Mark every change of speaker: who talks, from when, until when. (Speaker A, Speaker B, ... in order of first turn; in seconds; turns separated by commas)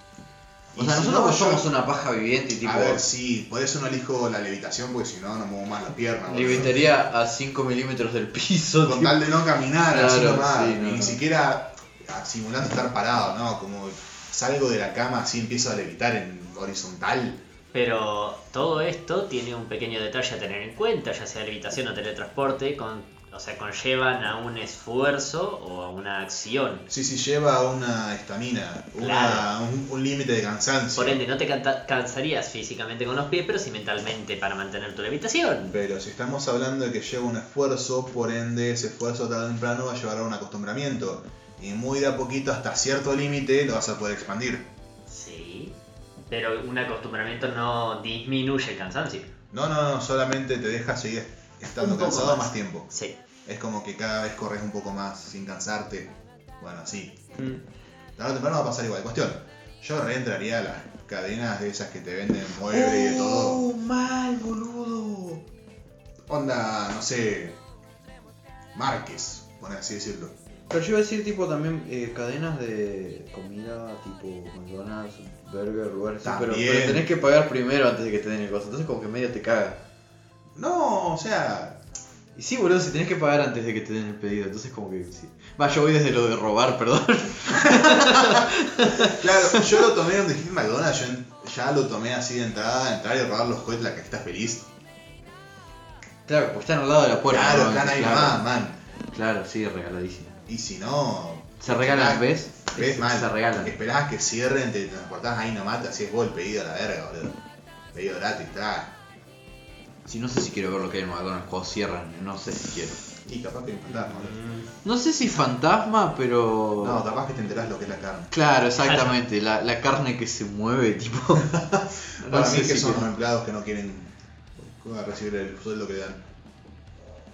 Speaker A: 0.7-1.7, Speaker B: 0.8-3.1, Speaker A: 2.6-6.8, Speaker B: 6.2-9.2, Speaker A: 8.8-17.4, Speaker B: 9.8-11.2, Speaker C: 17.7-26.9, Speaker A: 26.9-31.2, Speaker C: 29.0-29.5, Speaker C: 30.9-35.8, Speaker A: 35.7-44.7, Speaker C: 45.1-45.8, Speaker C: 46.3-49.3, Speaker A: 49.5-52.9, Speaker C: 51.8-53.2, Speaker A: 53.5-57.2, Speaker A: 58.1-63.7, Speaker B: 62.7-65.4, Speaker A: 66.3-67.6, Speaker A: 68.7-70.3, Speaker B: 70.7-79.8, Speaker A: 76.2-77.1, Speaker A: 80.5-81.8, Speaker B: 82.3-89.9, Speaker A: 87.5-94.7, Speaker B: 96.2-98.4, Speaker A: 97.3-98.8, Speaker B: 99.1-100.4, Speaker A: 100.5-107.4, Speaker B: 101.6-103.8, Speaker A: 107.9-109.0, Speaker B: 110.0-113.0, Speaker A: 113.2-114.4, Speaker C: 114.0-114.7, Speaker B: 114.8-117.0, Speaker A: 116.8-118.3, Speaker B: 118.3-121.6, Speaker C: 118.8-119.1, Speaker A: 121.4-126.2, Speaker B: 122.2-123.1